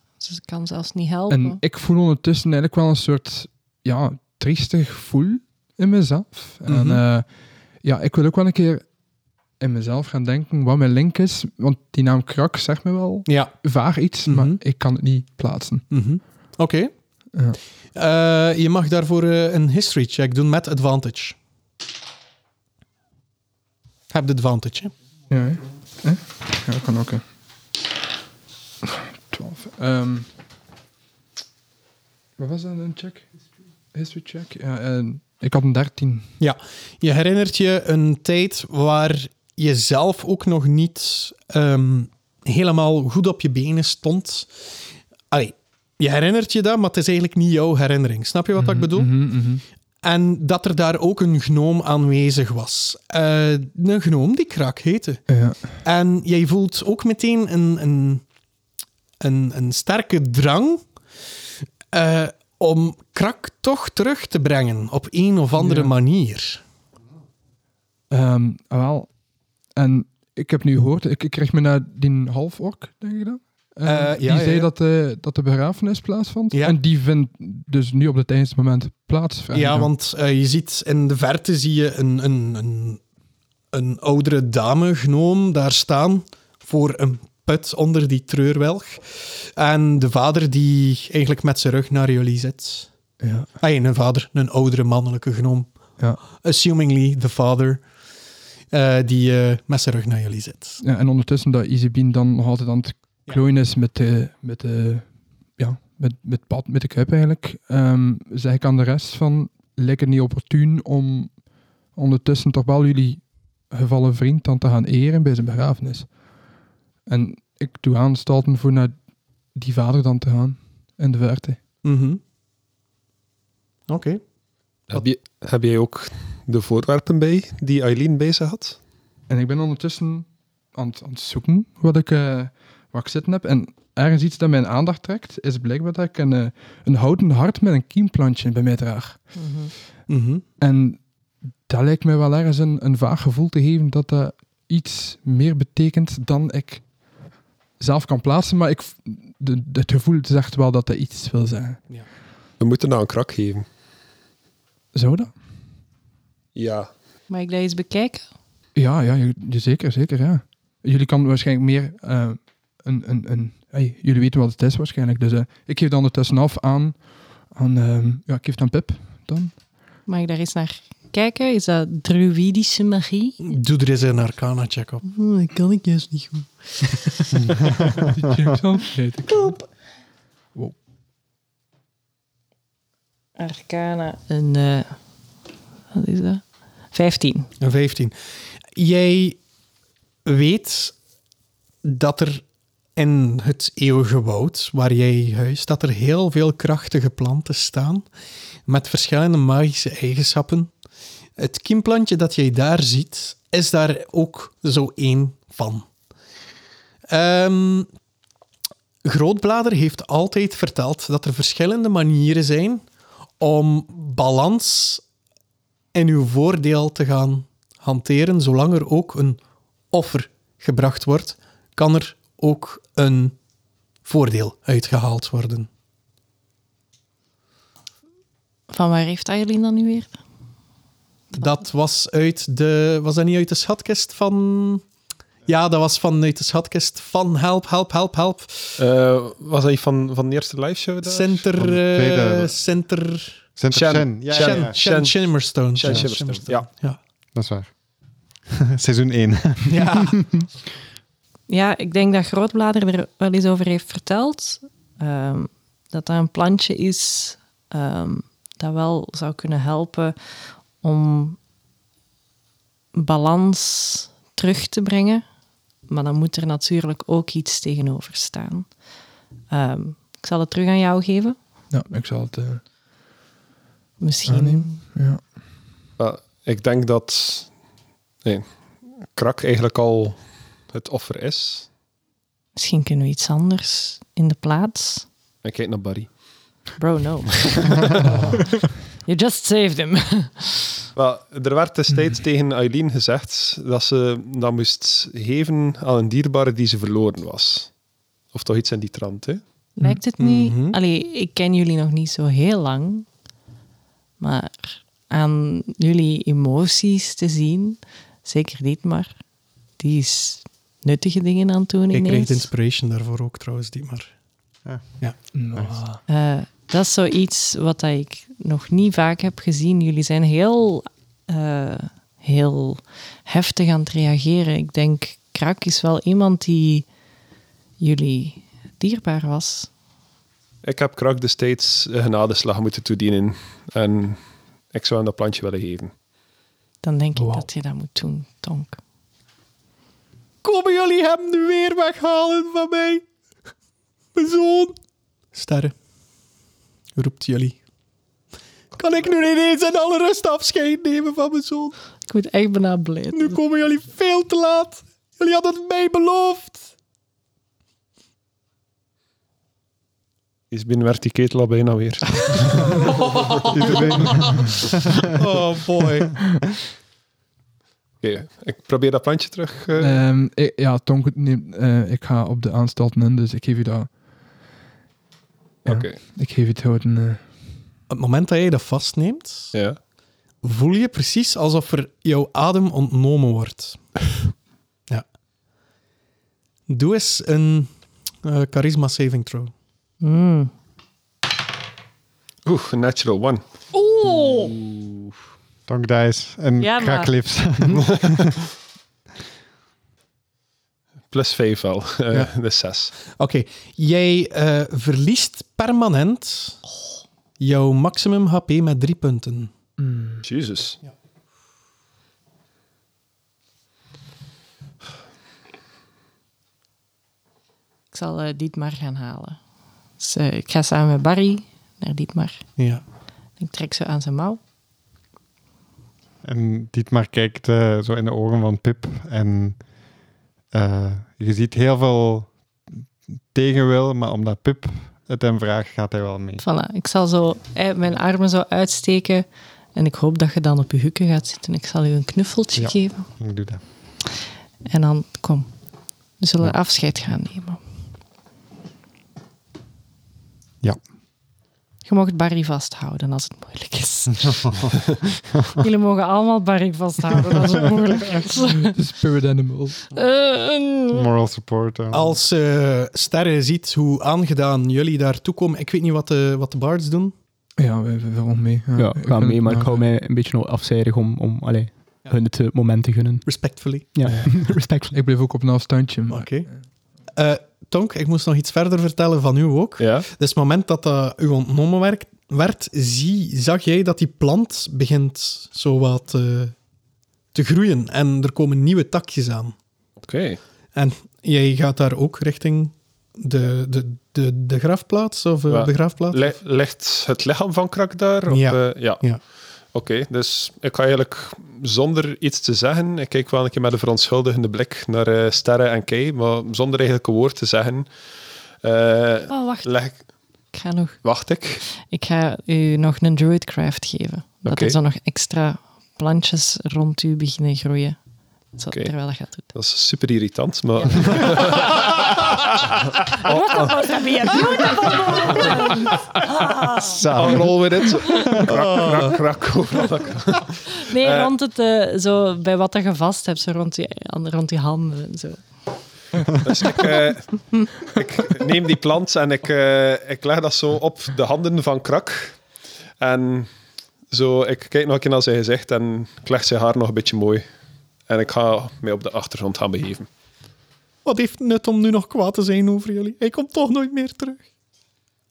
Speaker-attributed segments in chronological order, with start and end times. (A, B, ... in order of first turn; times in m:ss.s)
0:00.2-0:01.6 A
0:01.3-0:07.3 B
0:06.7-0:07.0 C
0:07.8-0:08.9 B
0:09.6-0:15.9 B
0:13.3-0:13.5 C
0:14.3-0:14.6 C
0:15.9-0:16.9 C
0:18.0-0:21.4 C
0:24.1-0:24.9 C
0:25.3-0:27.2 B
0:28.8-0:30.3 B
0:32.4-0:33.3 B
0:33.9-0:36.3 B
0:36.4-0:44.5 C
0:45.3-0:49.1 C
0:48.6-0:49.6 B
0:50.0-0:55.3 C
0:55.3-0:55.8 B
0:55.8-0:58.2 C
0:59.2-1:00.8 C
1:01.9-1:06.6 C
1:05.6-1:05.9 B
1:08.1-1:09.1 B
1:09.8-1:19.9 B
1:13.9-1:14.7 C
1:19.5-1:23.0 C
1:23.7-1:32.9 C
1:33.2-1:33.5 B
1:33.6-1:35.7 C
1:36.2-1:37.8 C
1:38.7-1:40.8 C
1:40.8-1:51.4 B
1:52.0-1:56.1 B
1:57.1-1:59.0 B
1:59.5-2:01.6 B
2:01.8-2:02.2 C
2:03.9-2:04.2 C
2:04.9-2:08.8 D
2:09.3-2:19.3 B
2:19.4-2:19.7 A
2:20.1-2:20.4 C
2:20.6-2:21.0 B
2:21.7-2:26.8 B
2:27.8-2:31.8 B
2:32.6-2:33.6 D
2:34.9-2:35.3 B
2:36.6-2:36.9 D
2:37.3-2:38.2 A
2:38.8-2:49.6 B
2:50.1-2:53.4 A
2:53.4-2:55.0 C
2:55.0-2:57.4 A
2:57.6-2:57.9 E
2:57.9-2:59.5 B
2:59.3-2:59.6 A
3:03.4-3:05.0 A
3:05.9-3:07.5 A
3:07.6-3:08.1 C
3:08.7-3:09.4 C
3:10.2-3:11.0 C
3:11.8-3:12.4 C
3:13.0-3:18.0 C
3:18.7-3:20.7 C
3:21.4-3:25.9 C
3:27.1-3:27.9 C
3:29.0-3:32.8 C
3:33.4-3:35.0 C
3:35.9-3:39.4 C
3:39.9-3:43.4 C
3:44.0-3:45.7 C
3:48.7-3:50.2 A
3:51.3-3:54.8 C
3:55.5-3:58.8 C
3:58.8-4:01.5 D
4:01.0-4:03.4 C
4:01.6-4:02.5 E
4:03.6-4:04.7 E
4:03.7-4:06.7 D
4:04.3-4:07.0 C
4:05.9-4:06.1 E
4:07.4-4:07.7 E
4:08.5-4:10.1 E
4:09.7-4:10.2 C
4:11.5-4:20.2 A
4:20.8-4:21.4 A
4:23.0-4:25.2 A
4:25.9-4:28.7 A
4:29.5-4:31.4 A
4:31.7-4:32.6 B
4:34.0-4:34.8 A
4:34.3-4:35.2 B
4:36.0-4:37.5 D
4:39.1-4:40.2 D
4:40.7-4:41.7 D
4:42.6-4:45.1 A
4:45.4-4:46.1 D
4:46.8-4:47.9 A
4:48.0-4:48.4 B
4:49.1-4:50.8 A
4:51.0-4:57.7 D
4:58.3-4:59.4 D
4:59.8-5:03.1 A
5:00.2-5:00.8 C
5:04.2-5:09.1 A
5:09.8-5:12.5 A
5:11.9-5:14.1 C
5:15.3-5:16.0 B
5:16.1-5:26.9 A
5:27.8-5:29.7 A
5:30.6-5:34.2 D
5:34.7-5:35.9 D
5:36.8-5:38.8 A
5:40.4-5:43.0 C
5:44.2-5:44.8 C
5:45.3-5:45.7 C
5:47.0-5:47.6 C
5:48.8-5:51.8 C
5:52.1-5:53.4 A
5:53.1-5:56.7 C
6:00.5-6:02.8 D
6:03.2-6:04.2 C
6:03.5-6:05.0 E
6:05.1-6:06.2 C
6:08.0-6:10.0 D
6:09.8-6:13.9 B
6:15.6-6:16.0 D
6:15.7-6:17.2 B
6:17.9-6:19.5 C
6:20.4-6:23.8 C
6:26.7-6:27.7 C
6:28.2-6:29.5 C
6:30.0-6:30.5 A
6:32.4-6:33.4 D
6:33.7-6:34.6 A
6:34.7-6:35.0 D
6:35.7-6:38.3 E
6:36.6-6:37.1 A
6:41.1-6:42.9 D
6:43.1-6:46.6 C
6:47.4-6:49.5 C
6:49.8-6:50.2 B
6:50.2-6:50.8 D
6:57.9-6:59.4 A
7:00.0-7:02.5 A
7:03.4-7:04.4 A
7:06.2-7:09.6 E
7:10.5-7:12.3 E
7:13.3-7:16.4 E
7:16.4-7:23.1 A
7:22.6-7:23.6 E
7:24.7-7:25.5 A
7:26.2-7:27.6 A
7:31.9-7:34.7 A
7:35.6-7:38.8 A
7:38.7-7:39.8 B
7:39.9-7:41.1 A
7:40.9-7:42.2 E
7:41.9-7:47.1 C
7:47.6-7:49.9 B
7:48.8-7:55.0 F
7:53.2-7:53.9 C
7:54.1-7:54.4 B
7:54.9-7:56.6 B
7:56.1-7:56.5 C
7:57.2-8:06.6 C
7:59.8-8:00.1 D
8:07.3-8:09.6 C
8:10.0-8:10.4 D
8:10.8-8:16.4 C
8:15.5-8:19.0 D
8:18.3-8:19.2 C
8:19.7-8:27.9 D
8:28.6-8:30.0 D
8:29.3-8:29.8 A
8:30.5-8:31.0 A
8:31.0-8:31.6 D
8:31.9-8:38.0 A
8:34.4-8:34.8 D
8:38.6-8:39.5 A
8:39.4-8:43.8 D
8:43.2-8:47.1 A
8:45.0-8:45.6 D
8:46.8-8:47.6 E
8:47.1-8:51.3 D
8:48.1-8:48.4 A
8:48.2-8:48.5 E
8:50.8-8:55.4 A
8:56.4-9:02.4 D
9:03.0-9:03.5 D
9:04.1-9:07.4 D
9:08.1-9:10.1 D
9:11.0-9:14.4 C